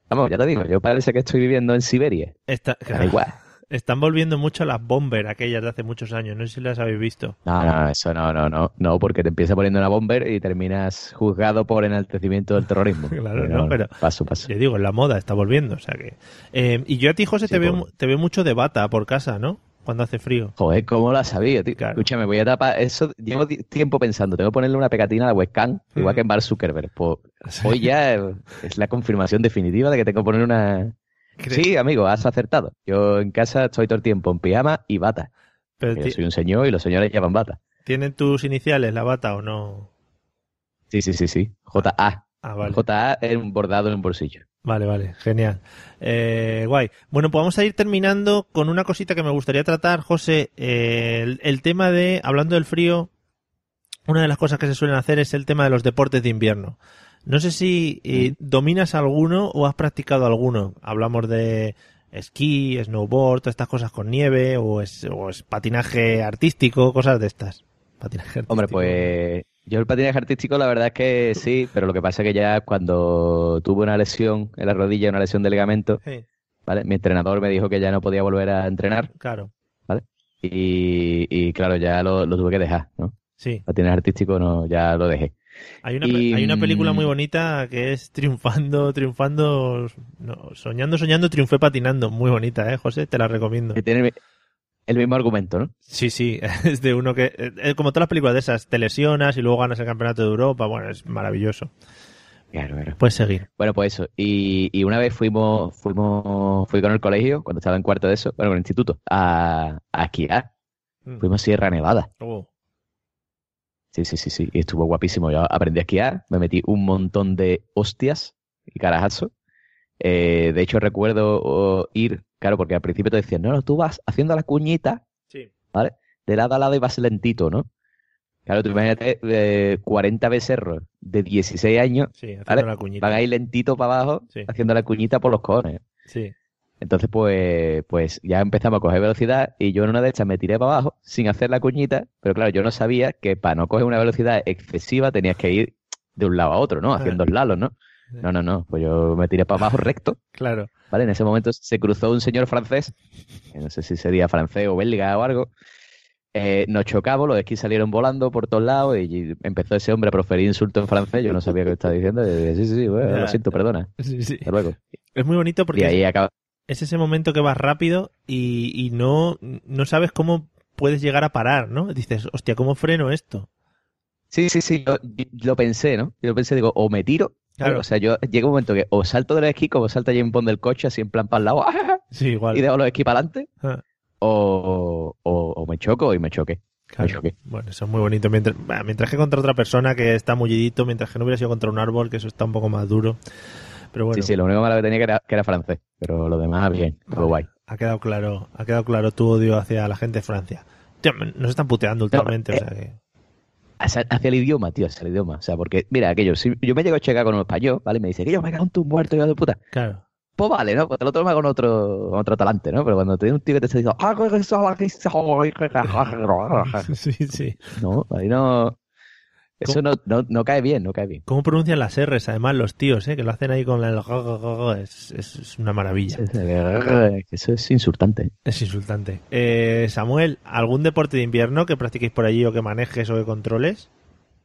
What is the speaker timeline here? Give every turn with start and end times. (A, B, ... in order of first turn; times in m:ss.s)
0:00.1-0:02.4 A
0:02.5-0:07.4 B
0:02.9-0:03.4 A
0:07.4-0:14.5 A
0:13.1-0:14.0 B
0:14.5-0:20.5 B
0:17.5-0:17.9 A
0:20.6-0:31.0 A
0:21.8-0:22.0 B
0:26.0-0:26.2 B
0:27.5-0:27.8 B
0:31.4-0:31.7 B
0:31.5-0:35.3 A
0:35.8-0:36.2 B
0:35.9-0:37.6 A
0:37.8-0:39.9 B
0:40.9-0:44.4 A
0:41.8-0:42.8 B
0:44.6-0:53.1 B
0:54.1-1:09.1 B
1:08.5-1:16.0 A
1:16.7-1:19.1 A
1:19.2-1:19.5 B
1:19.9-1:23.1 A
1:23.4-1:23.6 B
1:23.7-1:25.3 A
1:25.8-1:33.8 B
1:26.0-1:27.1 A
1:33.7-1:34.2 A
1:34.9-1:35.7 A
1:35.9-1:41.7 B
1:42.5-1:43.0 A
1:43.0-1:43.5 B
1:43.6-1:50.5 A
1:51.2-1:52.1 A
1:52.2-1:52.5 B
1:53.9-1:59.3 A
2:00.0-2:05.0 A
2:05.7-2:07.7 A
2:08.5-2:15.8 A
2:12.2-2:13.2 B
2:16.1-2:16.3 B
2:16.8-2:30.2 A
2:27.0-2:27.2 B
2:30.4-2:30.7 B
2:30.9-2:32.9 A
2:33.5-2:35.5 A
2:36.3-2:43.9 A
2:43.0-2:44.5 B
2:44.4-2:44.8 A
2:45.2-2:46.0 B
2:45.7-2:46.3 A
2:46.7-2:53.5 B
2:54.3-3:02.0 A
2:57.6-2:57.8 B
3:02.1-3:02.6 B
3:02.5-3:03.5 A
3:04.2-3:07.3 A
3:06.9-3:13.2 B
3:13.9-3:14.3 B
3:14.1-3:17.5 A
3:17.1-3:23.0 B
3:22.1-3:22.6 A
3:23.8-3:29.6 A
3:29.7-3:30.0 B
3:30.4-3:36.9 A
3:36.6-3:37.6 B
3:37.8-3:38.8 A
3:39.6-3:41.2 A
3:41.3-3:46.2 B
3:46.2-3:48.3 A
3:48.5-3:53.9 B